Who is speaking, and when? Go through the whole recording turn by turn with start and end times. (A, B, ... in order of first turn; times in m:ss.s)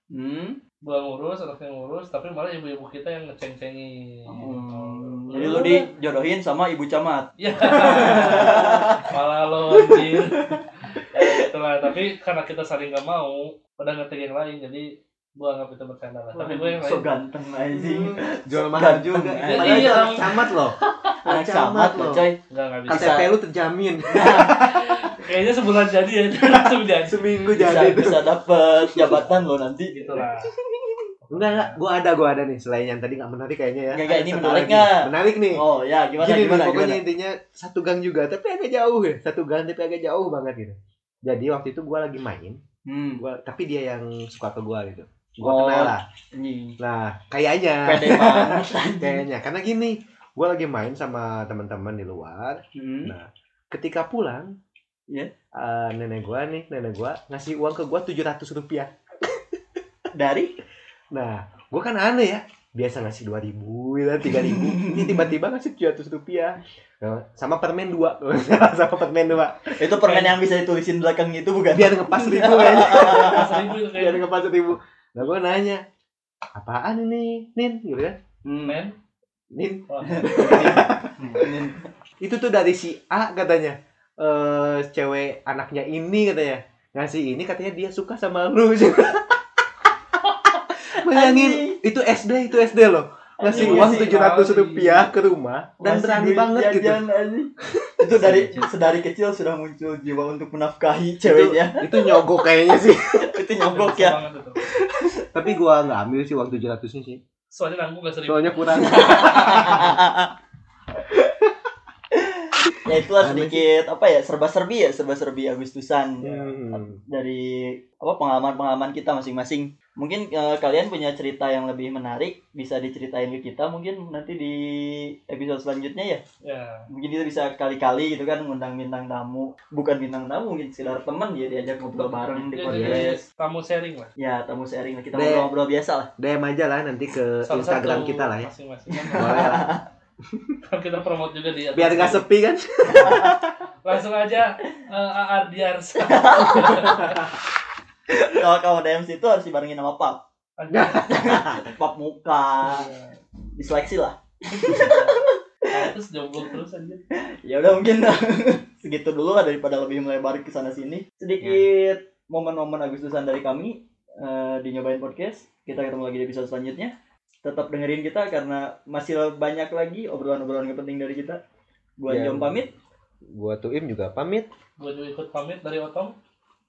0:00.1-0:00.6 A
0:00.8-0:05.8 B
0:04.3-0:09.2 A
0:07.4-0:17.1 B
0:09.8-0:10.0 A
0:16.4-0:20.4 A
0:17.7-0:22.2 C
0:19.4-0:20.4 B
0:21.2-0:23.3 A
0:22.5-0:23.2 B
0:22.9-0:25.2 C
0:24.1-0:24.7 A
0:24.5-0:27.3 B
0:26.4-0:29.2 C
0:27.5-0:31.1 A
0:29.9-0:30.5 B
0:31.2-0:31.8 B
0:31.3-0:35.6 C
0:33.9-0:37.0 A
0:36.2-0:42.6 C
0:42.8-0:43.2 A
0:43.2-0:46.0 C
0:45.4-0:46.8 A
0:46.8-0:54.6 C
0:47.8-0:49.2 A
0:52.7-0:53.2 A
0:55.5-0:59.4 C
1:00.1-1:00.5 A
1:01.1-1:09.8 C
1:04.3-1:05.4 A
1:09.8-1:13.7 A
1:10.0-1:10.4 B
1:11.7-1:15.8 C
1:13.1-1:14.2 B
1:16.5-1:18.2 C
1:18.4-1:18.8 A
1:18.6-1:19.0 B
1:19.5-1:21.5 C
1:19.9-1:20.6 B
1:20.0-1:21.9 A
1:22.2-1:29.4 C
1:30.1-1:37.0 C
1:30.9-1:31.8 A
1:33.4-1:34.2 A
1:33.5-1:35.1 B
1:35.8-1:42.3 A
1:37.8-1:38.7 C
1:41.2-1:43.4 C
1:43.1-1:44.2 A
1:43.7-1:44.6 B
1:44.8-1:47.2 C
1:45.0-1:45.5 A
1:47.5-1:49.8 B
1:48.3-1:50.0 C
1:48.7-1:50.3 A
1:52.1-2:06.2 A
1:52.7-1:53.7 C
1:56.2-1:57.0 C
1:56.2-1:56.5 B
2:06.4-2:06.9 B
2:06.9-2:13.2 A
2:12.5-2:14.1 B
2:12.7-2:13.1 C
2:14.2-2:16.1 A
2:15.1-2:15.5 C
2:16.2-2:18.5 C
2:17.4-2:19.5 B
2:18.9-2:19.8 A
2:19.2-2:19.8 C
2:20.7-2:22.2 B
2:21.7-2:23.5 C
2:22.9-2:23.4 A
2:23.8-2:27.3 B
2:26.0-2:27.1 A
2:28.1-2:30.2 A
2:30.6-2:31.3 B
2:30.7-2:31.6 C
2:31.1-2:32.9 A
2:32.6-2:33.2 B
2:33.6-2:35.9 A
2:34.5-2:37.0 B
2:37.1-2:51.4 A
2:52.0-2:52.7 A
2:52.1-2:52.6 C
2:53.3-2:54.5 C
2:54.8-2:56.2 B